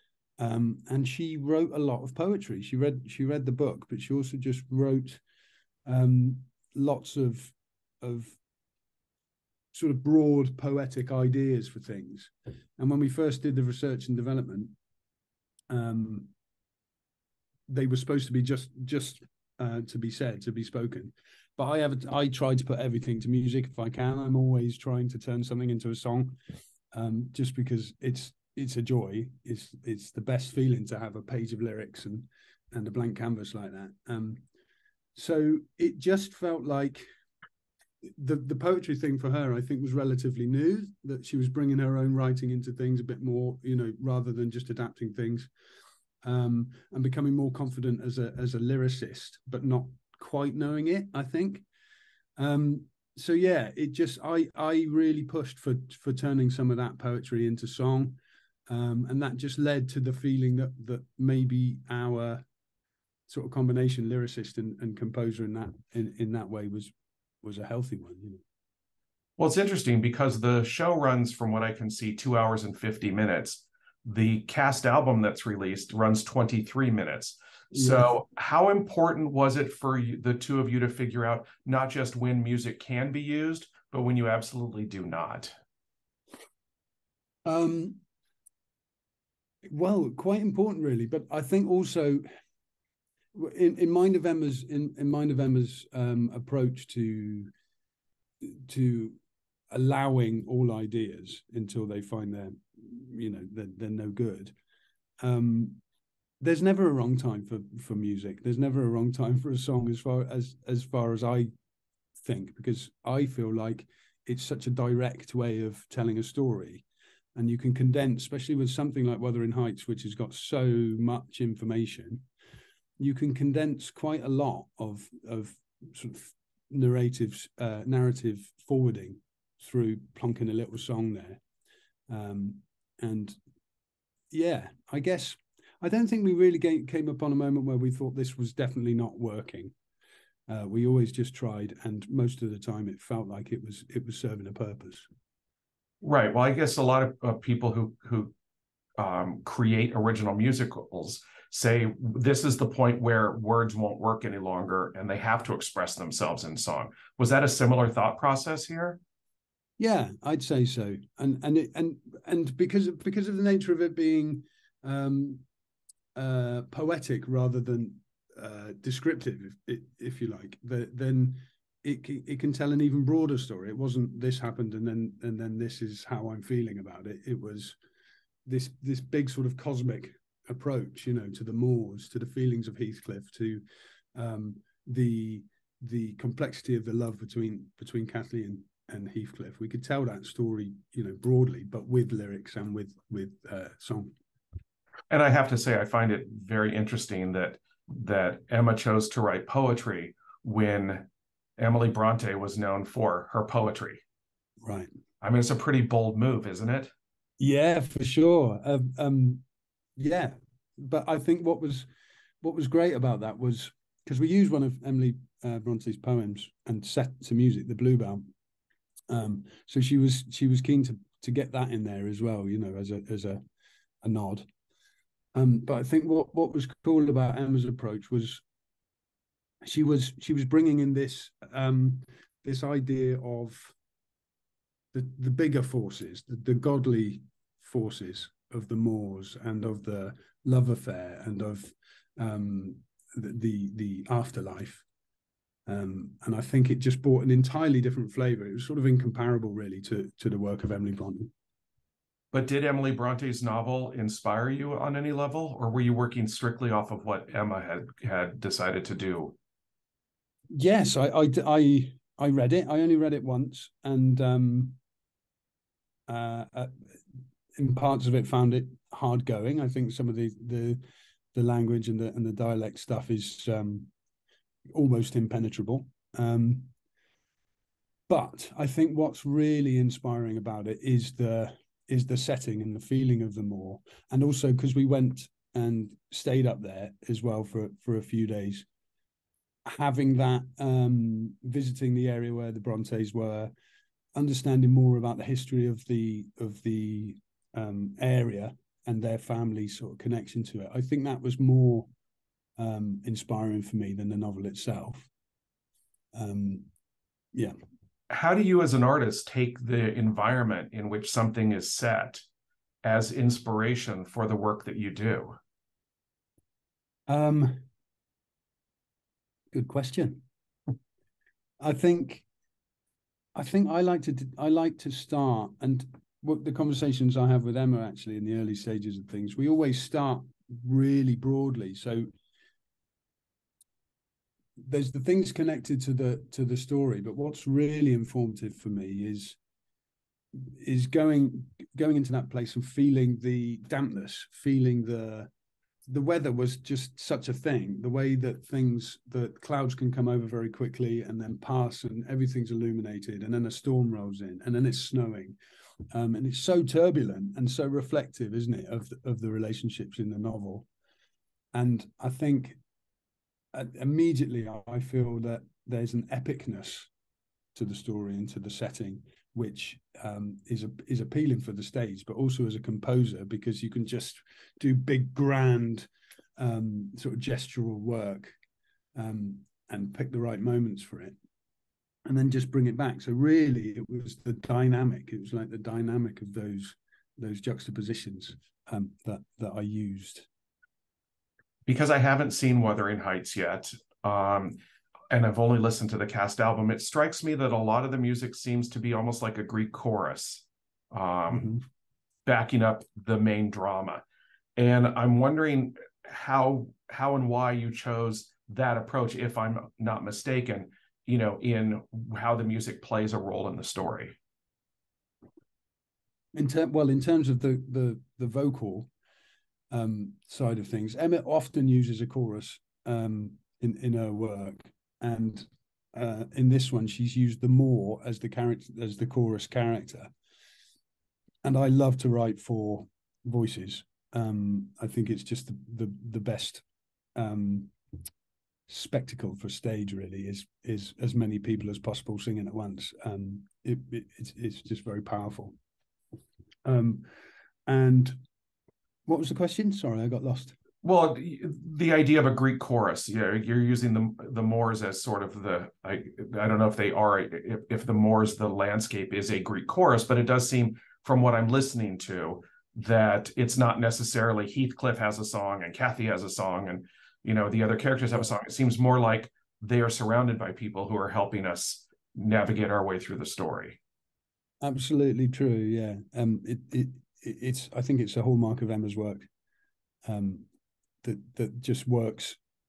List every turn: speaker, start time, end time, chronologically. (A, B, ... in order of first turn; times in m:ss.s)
0:00.4-0:05.2 A
0:05.9-0:08.4 A
0:09.7-0:14.8 A
0:15.7-0:16.3 A
0:17.7-0:26.4 A
0:26.9-0:34.4 A
0:35.2-0:37.1 A
0:38.2-0:45.5 A
0:46.2-0:51.6 A
0:52.4-1:02.4 A
1:03.3-1:08.4 A
1:09.4-1:25.5 B
1:17.7-1:18.1 A
1:27.4-1:28.0 A
1:29.7-1:32.2 A
1:33.3-1:37.5 A
1:38.4-1:39.2 A
1:39.7-1:44.6 A
1:45.2-1:45.8 A
1:46.4-1:51.5 A
1:52.2-2:02.3 A
2:03.0-2:11.4 A
2:12.1-2:13.4 A
2:14.3-2:19.8 A
2:20.5-2:25.1 A
2:26.0-2:28.3 B
2:29.0-2:39.0 B
2:39.8-2:45.4 A
2:46.2-2:57.8 A
2:58.5-3:03.6 A
3:04.2-3:14.1 A
3:15.1-3:21.1 B
3:21.6-3:24.0 B
3:24.6-3:24.9 A
3:25.2-3:26.9 B
3:27.4-3:29.4 A
3:30.0-3:31.9 A
3:32.4-3:38.3 A
3:39.1-3:43.4 A
3:44.0-3:44.5 A
3:45.4-3:48.4 A
3:49.6-3:53.8 A
3:54.9-4:04.8 A
4:05.7-4:11.3 A
4:12.3-4:19.4 B
4:20.5-4:24.8 A
4:26.1-4:26.8 A
4:27.6-4:30.8 A
4:31.3-4:33.9 A
4:34.7-4:36.7 A
4:38.1-4:48.7 A
4:49.7-4:53.5 A
4:54.2-5:01.9 A
5:02.6-5:05.1 A
5:06.1-5:06.7 A
5:08.1-5:12.2 B
5:12.8-5:15.4 B
5:17.1-5:17.7 A
5:19.5-5:20.2 A
5:21.6-5:22.2 A
5:23.4-5:32.1 A
5:34.6-5:39.4 A
5:40.3-5:45.3 A
5:45.9-5:55.4 A
5:55.9-6:00.7 A
6:01.5-6:02.6 A
6:03.5-6:06.9 A
6:07.6-6:18.4 A
6:19.0-6:21.2 A
6:22.0-6:30.3 A
6:31.7-6:34.6 B
6:35.1-6:41.6 B
6:41.3-6:41.6 A
6:42.3-6:44.0 B
6:44.6-6:54.2 B
6:56.4-6:58.9 A
6:59.7-7:10.1 A
7:11.4-7:16.6 A
7:17.2-7:17.7 A
7:18.7-7:25.6 A
7:26.6-7:27.1 A
7:27.7-7:28.2 A
7:29.1-7:30.6 A
7:30.8-7:53.8 B
7:54.6-7:59.3 A
8:00.0-8:00.5 A
8:01.0-8:02.4 A